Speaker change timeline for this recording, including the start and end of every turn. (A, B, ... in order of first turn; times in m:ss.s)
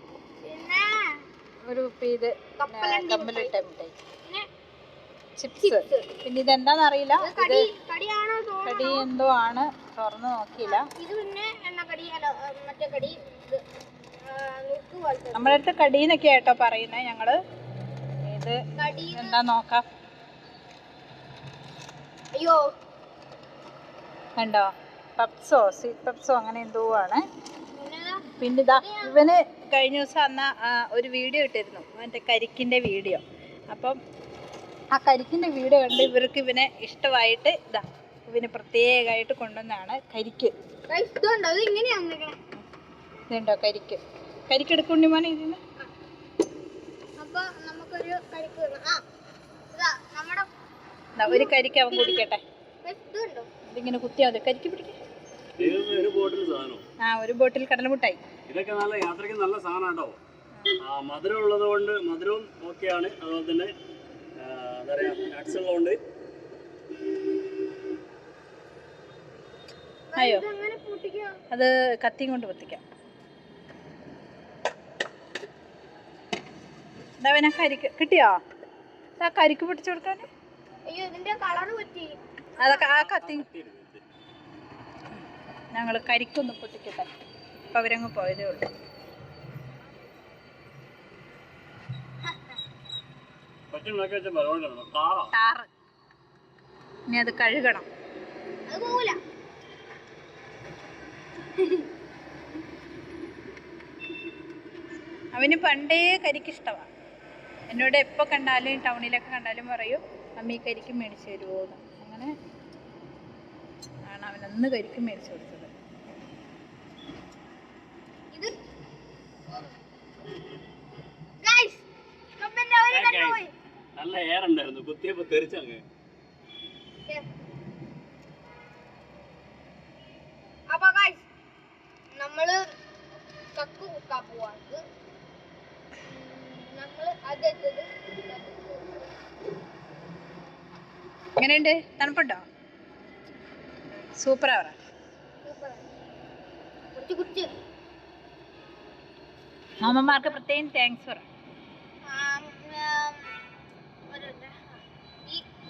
0:00.4-0:01.2 A
0:01.6-0:03.9 B
0:02.6-0:03.6 A
0:05.4-0:07.7 B
0:05.6-0:06.1 A
0:07.2-0:09.0 A
0:08.6-0:10.9 B
0:10.6-0:13.6 A
0:14.2-0:15.6 A
0:15.3-0:17.4 B
0:18.3-0:18.6 B
0:18.8-0:19.4 A
0:19.1-0:19.8 B
0:22.3-0:22.6 A
0:24.4-0:27.2 B
0:27.7-0:29.3 A
0:28.4-0:34.0 B
0:34.9-0:40.5 B
0:40.9-0:42.4 A
0:43.3-0:45.6 B
0:47.2-0:49.0 A
0:49.7-0:50.5 A
0:51.2-0:52.4 B
0:51.2-0:52.2 A
0:52.8-0:53.5 A
0:53.7-0:55.0 B
0:55.6-0:56.8 C
0:57.0-0:58.2 B
0:58.5-1:00.2 C
1:00.8-1:03.7 C
1:04.4-1:06.0 C
1:10.1-1:11.4 A
1:10.2-1:10.4 B
1:11.5-1:12.8 B
1:17.2-1:18.4 B
1:19.2-1:20.3 B
1:20.9-1:22.8 A
1:22.6-1:23.5 B
1:22.6-1:24.0 C
1:25.7-1:27.1 B
1:27.7-1:28.7 B
1:33.7-1:35.3 C
1:35.3-1:35.7 B
1:37.1-1:37.9 B
1:38.7-1:39.2 A
1:41.6-1:41.9 A
1:45.3-1:46.9 B
1:47.7-1:52.3 B
1:54.0-1:55.7 B
2:01.4-2:01.8 A
2:02.4-2:03.5 A
2:02.9-2:03.4 C
2:04.0-2:05.8 C
2:10.7-2:11.2 A
2:12.2-2:12.6 A
2:13.6-2:14.8 A
2:16.0-2:19.1 A
2:21.4-2:22.4 B
2:24.2-2:24.8 B
2:25.4-2:25.9 A
2:26.9-2:27.5 A
2:29.8-2:31.2 B
2:32.0-2:33.4 A
2:34.1-2:34.7 A